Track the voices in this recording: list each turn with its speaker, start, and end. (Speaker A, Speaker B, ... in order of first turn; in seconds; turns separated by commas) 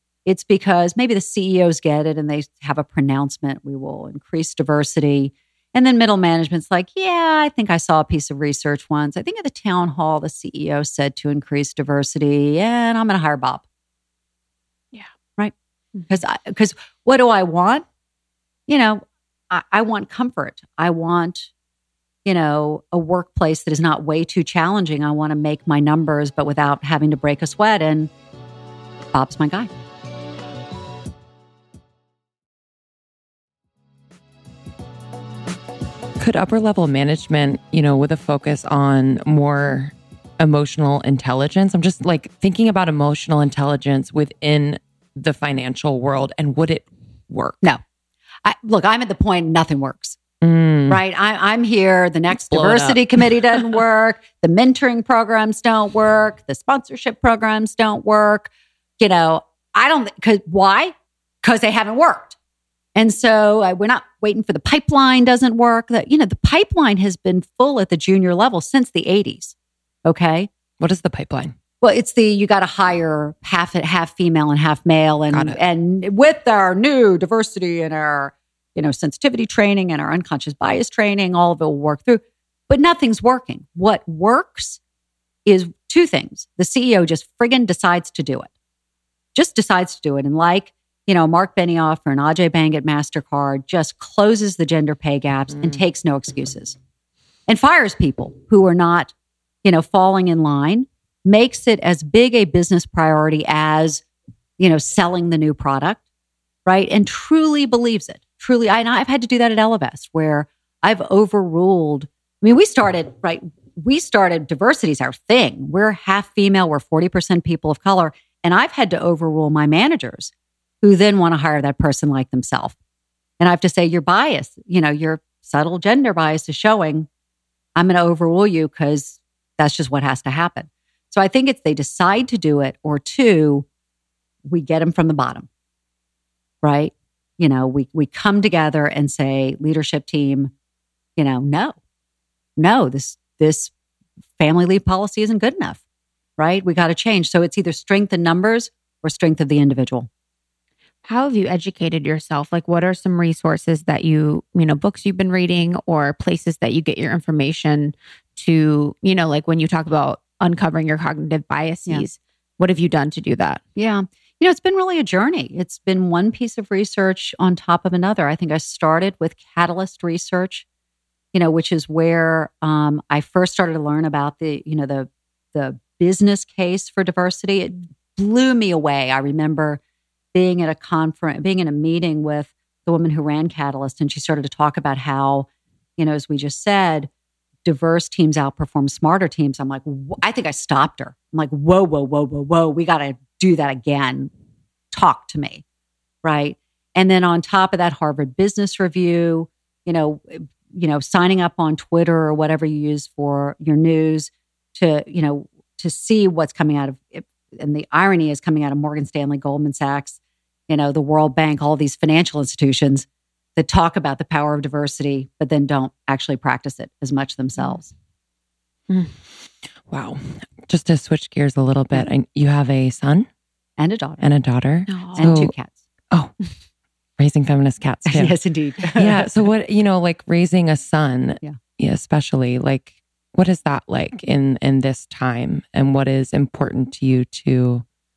Speaker A: 0.3-13.6, Speaker A: 16.1-17.9, Speaker A: 18.7-21.5, Speaker A: 22.2-28.1, Speaker A: 29.1-29.7, Speaker B: 36.2-47.7, Speaker A: 48.4-50.2, Speaker B: 50.4-51.0, Speaker A: 50.9-62.4, Speaker B: 52.5-53.2, Speaker A: 63.0-70.5, Speaker B: 70.8-71.5, Speaker A: 71.8-84.8, Speaker B: 75.3-75.6, Speaker A: 85.5-88.5, Speaker A: 89.3-96.8, Speaker A: 97.5-104.0, Speaker A: 104.6-106.0, Speaker A: 106.7-122.8, Speaker A: 123.4-127.1, Speaker A: 127.8-133.7, Speaker A: 134.5-135.5, Speaker A: 136.6-140.5, Speaker A: 141.2-141.8, Speaker A: 142.6-143.7, Speaker A: 144.4-145.8, Speaker A: 146.4-150.1, Speaker C: 151.1-163.6, Speaker A: 163.8-170.7, Speaker A: 171.3-179.8, Speaker A: 180.3-187.1, Speaker A: 187.7-194.3, Speaker A: 194.9-195.6, Speaker A: 196.2-217.9, Speaker C: 218.9-219.1, Speaker B: 219.9-223.3, Speaker A: 223.8-224.3, Speaker B: 224.2-225.5, Speaker C: 224.9-225.3, Speaker A: 225.2-225.8, Speaker B: 227.2-228.4, Speaker A: 228.1-229.3, Speaker B: 228.9-237.8